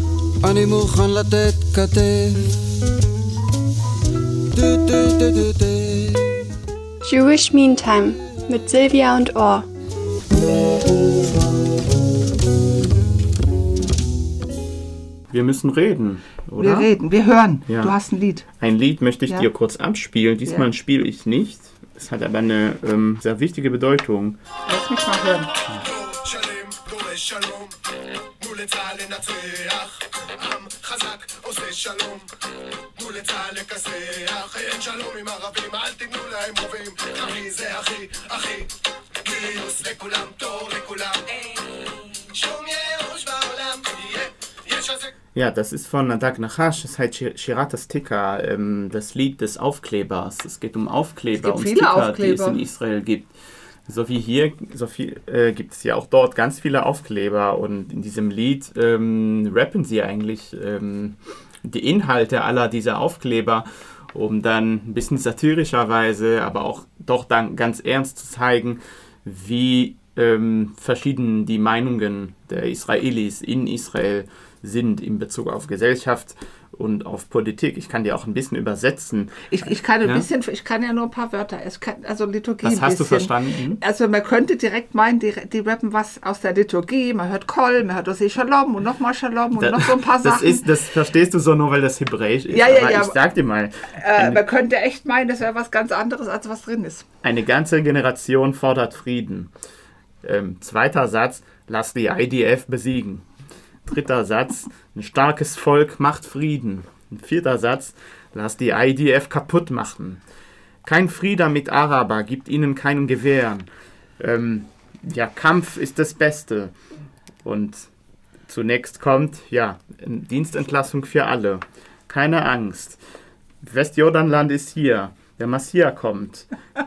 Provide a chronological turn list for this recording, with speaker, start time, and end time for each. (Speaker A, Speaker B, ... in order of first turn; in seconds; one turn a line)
Speaker A: 0.4-2.6
Speaker A: 4.5-6.5
Speaker B: 7.0-9.7
Speaker C: 15.3-16.9
Speaker D: 16.6-18.5
Speaker C: 17.7-17.9
Speaker C: 18.6-24.4
Speaker D: 24.6-25.6
Speaker E: 25.9-27.8
Speaker E: 28.4-32.3
Speaker E: 32.9-41.4
Speaker E: 42.2-45.1
Speaker C: 45.3-53.3
Speaker D: 51.4-52.6
Speaker C: 53.9-80.3
Speaker D: 79.5-90.7
Speaker C: 82.6-83.8
Speaker C: 89.5-94.4
Speaker D: 92.5-93.2
Speaker D: 93.9-97.0
Speaker C: 97.2-99.5
Speaker C: 100.2-103.2
Speaker C: 103.8-110.2
Speaker C: 110.8-113.7
Speaker C: 114.2-116.7
Speaker C: 117.4-117.9
Speaker C: 118.5-123.0
Speaker C: 123.6-126.5